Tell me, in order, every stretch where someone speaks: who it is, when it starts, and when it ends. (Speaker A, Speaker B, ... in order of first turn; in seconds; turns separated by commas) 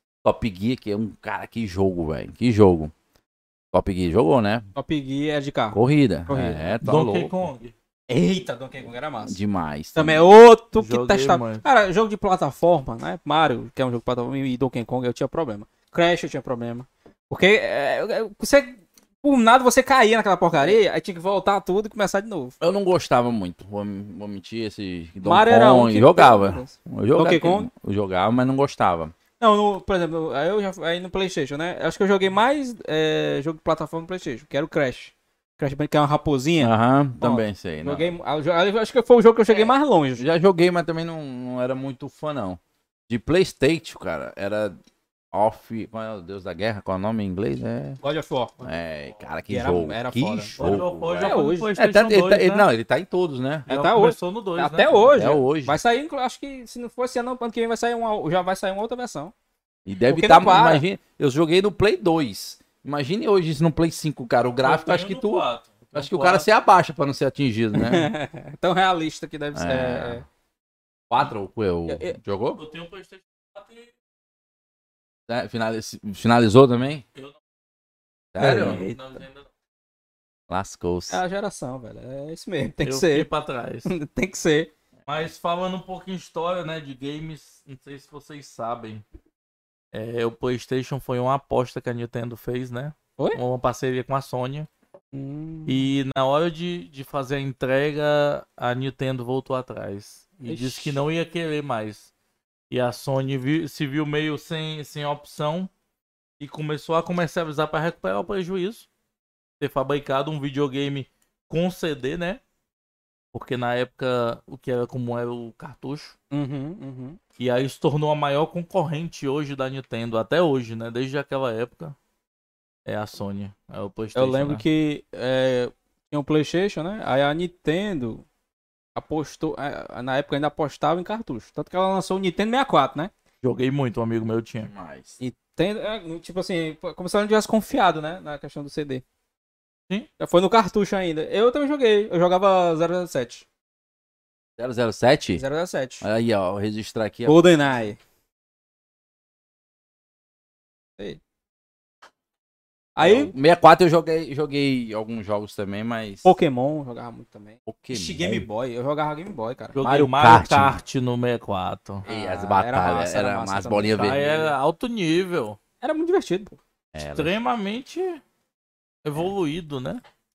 Speaker A: 0.2-2.9, Speaker A: 3.7-4.7, Speaker B: 4.8-7.0, Speaker A: 5.7-7.4, Speaker C: 6.8-7.7, Speaker B: 8.1-9.4, Speaker A: 9.2-10.3, Speaker B: 9.9-22.6, Speaker C: 10.8-11.7, Speaker A: 22.6-29.1, Speaker B: 25.2-27.7, Speaker B: 29.4-40.3, Speaker A: 36.6-38.1, Speaker A: 39.5-44.8, Speaker A: 45.3-48.0, Speaker B: 48.0-48.6, Speaker A: 48.6-53.7, Speaker B: 49.5-51.7, Speaker C: 50.6-52.7, Speaker C: 53.7-55.1, Speaker B: 53.7-59.3, Speaker A: 55.1-55.8, Speaker A: 59.9-68.1, Speaker B: 60.1-60.8, Speaker C: 64.6-66.5, Speaker B: 67.7-70.2, Speaker A: 69.5-70.2, Speaker A: 71.1-72.6, Speaker B: 71.9-72.2, Speaker C: 72.6-73.9, Speaker A: 75.3-77.0, Speaker A: 78.3-78.8, Speaker B: 78.4-79.2, Speaker C: 78.4-79.5, Speaker A: 80.5-81.2, Speaker B: 81.1-83.3, Speaker C: 82.8-83.9, Speaker B: 83.9-84.7, Speaker C: 85.1-89.0, Speaker C: 89.9-94.7, Speaker B: 95.1-95.9, Speaker C: 95.7-102.1, Speaker B: 100.5-101.0, Speaker C: 102.7-105.7, Speaker C: 106.4-108.9, Speaker C: 109.6-112.4, Speaker C: 113.3-116.2, Speaker B: 116.3-117.2, Speaker C: 117.4-122.0, Speaker C: 122.9-124.6, Speaker B: 124.2-128.2, Speaker B: 129.0-133.1, Speaker C: 133.4-134.7, Speaker A: 134.6-135.2, Speaker B: 135.2-139.0, Speaker B: 140.2-143.4, Speaker A: 144.6-145.4, Speaker B: 145.4-146.1, Speaker A: 146.0-147.4, Speaker B: 147.3-148.0, Speaker B: 153.0-153.3, Speaker A: 153.0-156.3, Speaker B: 156.2-159.8, Speaker A: 157.7-158.5, Speaker C: 159.8-162.1, Speaker A: 159.8-160.8, Speaker B: 162.1-164.3, Speaker A: 162.1-164.5, Speaker C: 163.9-165.6, Speaker B: 165.8-166.6, Speaker A: 166.9-167.4, Speaker C: 167.1-168.2, Speaker C: 169.0-170.0